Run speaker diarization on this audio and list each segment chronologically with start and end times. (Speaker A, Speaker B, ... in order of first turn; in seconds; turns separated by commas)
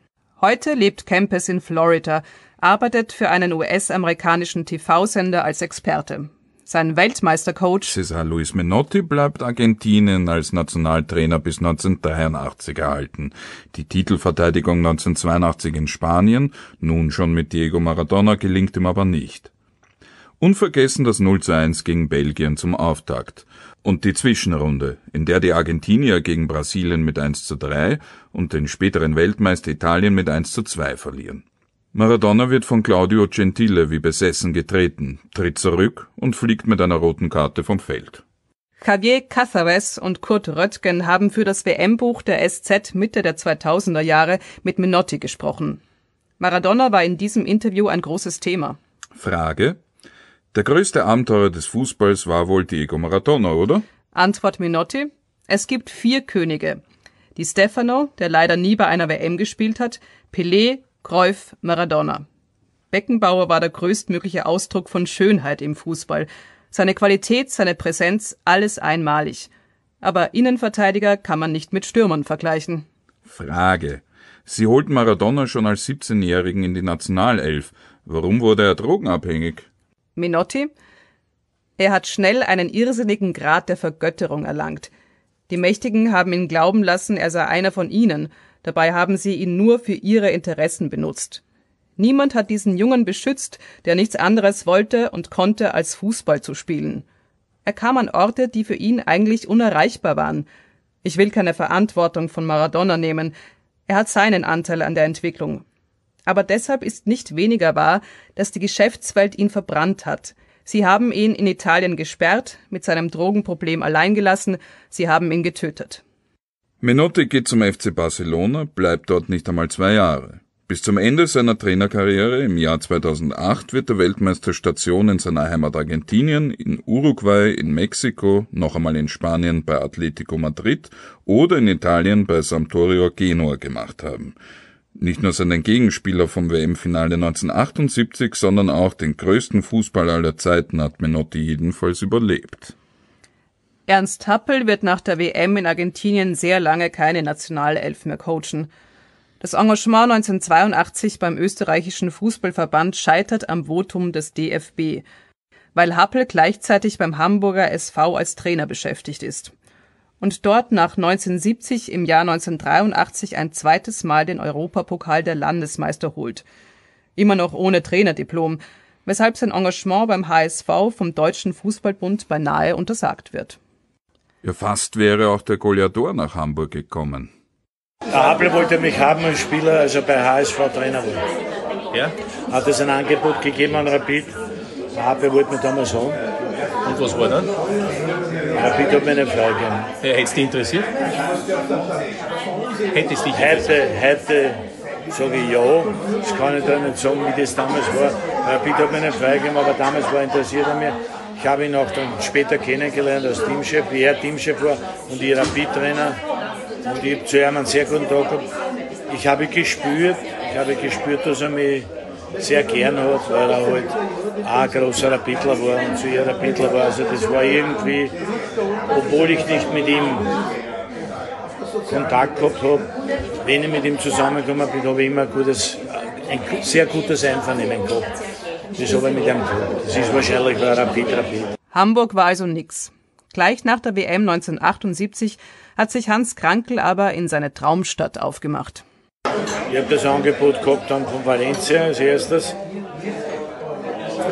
Speaker A: 0.4-7.9, Speaker B: 7.9-19.5, Speaker B: 20.4-38.2, Speaker A: 38.8-45.8, Speaker A: 46.4-48.8, Speaker B: 49.2-49.8, Speaker B: 50.5-53.8, Speaker A: 54.1-56.8, Speaker A: 57.4-62.2, Speaker A: 62.9-69.5, Speaker A: 70.0-72.8, Speaker B: 73.2-79.7, Speaker A: 80.2-80.7, Speaker A: 81.8-84.9, Speaker A: 85.5-91.4, Speaker A: 92.0-97.0, Speaker A: 97.6-100.5, Speaker A: 101.0-103.3, Speaker A: 103.9-105.6, Speaker A: 106.2-116.0, Speaker B: 116.8-134.3, Speaker B: 134.9-142.7, Speaker A: 143.9-148.7, Speaker A: 149.4-155.0, Speaker A: 155.7-159.5, Speaker A: 160.2-166.4, Speaker A: 167.2-173.6, Speaker B: 174.4-177.3, Speaker C: 178.1-181.2, Speaker C: 182.5-184.3, Speaker C: 184.9-186.2, Speaker D: 186.8-187.5, Speaker C: 188.5-189.9, Speaker D: 190.0-190.9, Speaker D: 192.9-193.6, Speaker C: 193.3-206.2, Speaker C: 206.8-208.4, Speaker C: 209.1-218.1, Speaker C: 218.9-220.3, Speaker C: 221.9-222.9, Speaker C: 223.4-228.1, Speaker C: 228.8-231.5, Speaker A: 231.7-238.8, Speaker C: 239.7-242.6